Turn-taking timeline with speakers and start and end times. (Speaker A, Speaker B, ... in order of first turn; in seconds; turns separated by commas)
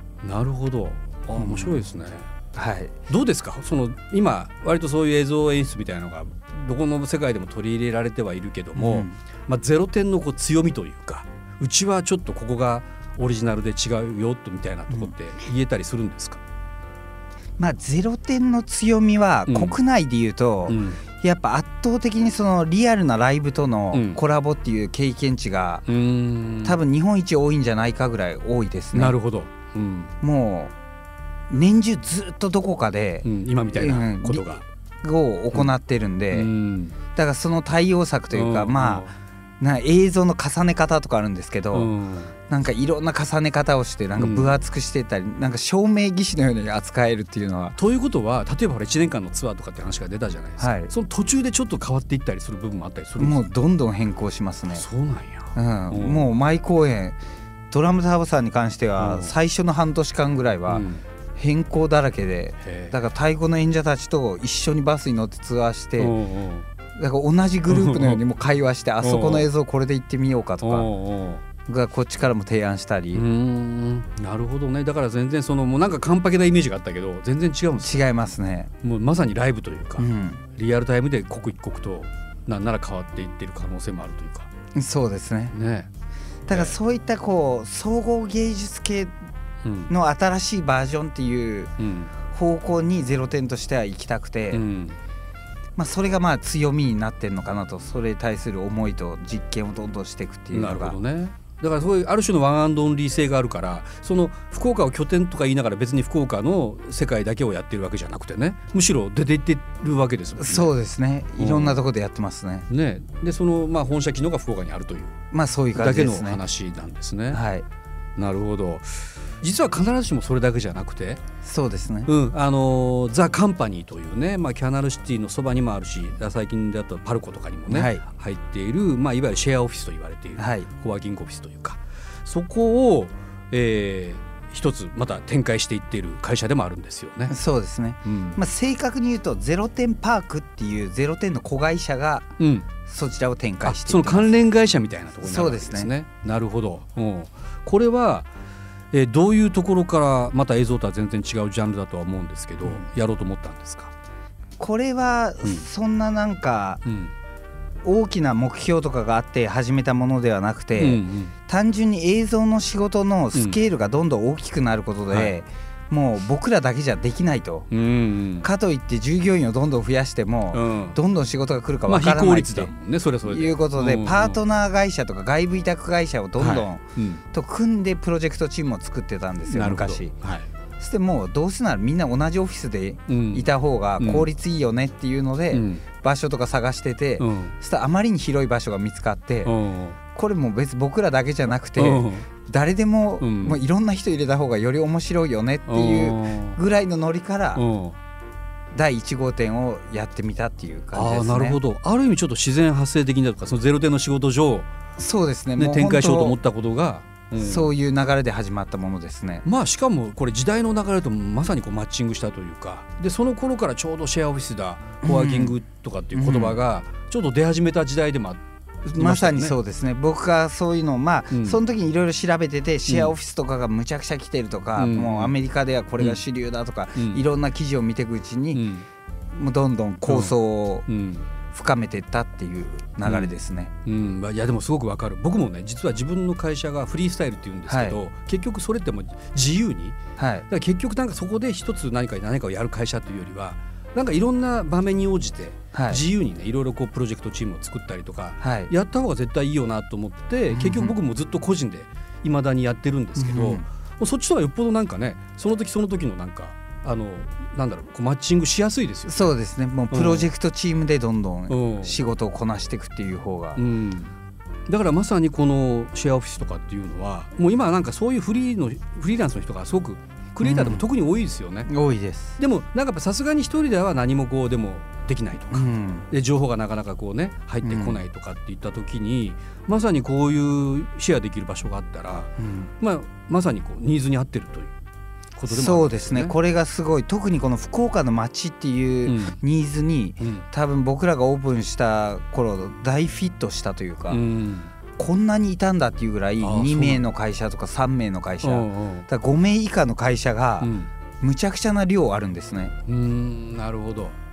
Speaker A: 0.2-2.3, Speaker B: 1.4-1.8, Speaker B: 2.5-3.0, Speaker A: 3.1-16.4, Speaker B: 8.7-9.2, Speaker B: 17.6-25.9, Speaker A: 19.5-19.8, Speaker A: 20.7-21.0, Speaker A: 23.9-24.2, Speaker A: 25.9-26.8, Speaker B: 26.6-29.1, Speaker A: 28.9-30.1, Speaker B: 30.2-30.7, Speaker B: 31.5-36.5, Speaker A: 33.2-34.6, Speaker A: 36.3-37.0, Speaker B: 37.1-41.9, Speaker A: 38.3-39.1, Speaker A: 41.7-42.3, Speaker B: 42.5-47.8, Speaker A: 44.2-44.6, Speaker A: 47.8-53.4, Speaker B: 50.6-50.9, Speaker B: 53.2-54.8, Speaker A: 54.7-56.3, Speaker B: 55.5-57.2, Speaker B: 57.7-60.8, Speaker A: 59.0-59.3, Speaker A: 60.7-61.0, Speaker B: 61.4-66.2, Speaker A: 62.6-63.0, Speaker A: 66.0-66.7, Speaker B: 67.0-70.9, Speaker A: 67.7-68.2, Speaker A: 69.0-69.5, Speaker A: 70.6-71.4, Speaker B: 71.6-73.2, Speaker A: 73.1-78.0, Speaker B: 77.8-78.7, Speaker A: 78.8-84.5, Speaker B: 80.0-80.4, Speaker B: 84.7-85.5, Speaker A: 85.5-85.9, Speaker B: 86.5-89.1, Speaker A: 86.5-86.8, Speaker A: 89.6-89.9, Speaker B: 89.9-91.7, Speaker A: 91.8-92.1, Speaker B: 92.2-94.6, Speaker A: 94.5-95.0, Speaker B: 95.8-101.0, Speaker A: 100.5-110.7, Speaker B: 110.4-112.7, Speaker A: 111.4-111.8, Speaker A: 112.7-115.2, Speaker B: 115.3-116.4, Speaker A: 115.7-117.4, Speaker B: 117.3-117.7, Speaker A: 118.2-121.2, Speaker B: 121.4-122.1, Speaker A: 122.0-137.3, Speaker B: 127.7-128.0, Speaker B: 130.4-130.7, Speaker B: 137.3-142.3, Speaker A: 138.0-138.4, Speaker A: 142.4-142.7, Speaker B: 142.8-144.3, Speaker A: 143.6-148.3, Speaker B: 145.2-145.9, Speaker A: 148.9-153.9, Speaker B: 154.6-156.8, Speaker A: 156.8-157.1, Speaker B: 157.8-167.7, Speaker A: 160.8-161.3, Speaker A: 167.7-168.5, Speaker B: 168.4-172.7, Speaker A: 170.5-171.0, Speaker A: 171.9-174.4, Speaker B: 173.3-180.1, Speaker A: 176.4-177.2, Speaker A: 179.5-180.5, Speaker B: 180.8-189.5, Speaker A: 183.1-184.3, Speaker A: 185.5-185.8, Speaker A: 187.2-187.5, Speaker A: 189.4-190.0, Speaker B: 190.1-197.6, Speaker A: 191.8-192.3, Speaker A: 193.2-193.6, Speaker A: 195.7-196.6, Speaker A: 197.5-198.0, Speaker B: 198.7-201.6, Speaker A: 200.9-204.7, Speaker B: 205.0-206.4, Speaker A: 205.6-207.7, Speaker B: 207.3-209.4, Speaker A: 209.4-218.4, Speaker B: 215.0-215.6, Speaker B: 216.1-216.6, Speaker B: 218.8-228.6, Speaker A: 219.0-219.5, Speaker A: 221.3-221.6, Speaker A: 222.9-223.1, Speaker A: 224.8-225.3, Speaker A: 226.9-227.2, Speaker A: 228.5-228.8, Speaker B: 229.3-230.8, Speaker A: 230.1-230.3, Speaker A: 230.9-231.3, Speaker B: 231.5-233.7, Speaker A: 233.0-233.3, Speaker A: 233.8-259.3, Speaker B: 237.7-238.0, Speaker B: 240.2-240.4, Speaker B: 245.7-246.0, Speaker B: 248.4-248.7, Speaker B: 250.5-250.9, Speaker B: 253.2-253.6, Speaker B: 259.1-263.6, Speaker A: 259.9-260.3, Speaker A: 261.5-262.0, Speaker A: 263.6-264.1, Speaker A: 264.7-271.7, Speaker B: 270.4-270.8, Speaker B: 271.6-272.4, Speaker A: 272.4-284.7, Speaker B: 275.5-276.1, Speaker B: 277.6-278.0, Speaker B: 282.4-282.7, Speaker A: 285.4-286.4, Speaker B: 285.5-294.2, Speaker A: 289.0-289.4, Speaker A: 290.2-290.4, Speaker A: 294.1-294.7, Speaker B: 294.9-302.7, Speaker A: 296.4-297.0, Speaker A: 298.4-299.1, Speaker A: 300.6-300.9, Speaker A: 302.9-304.1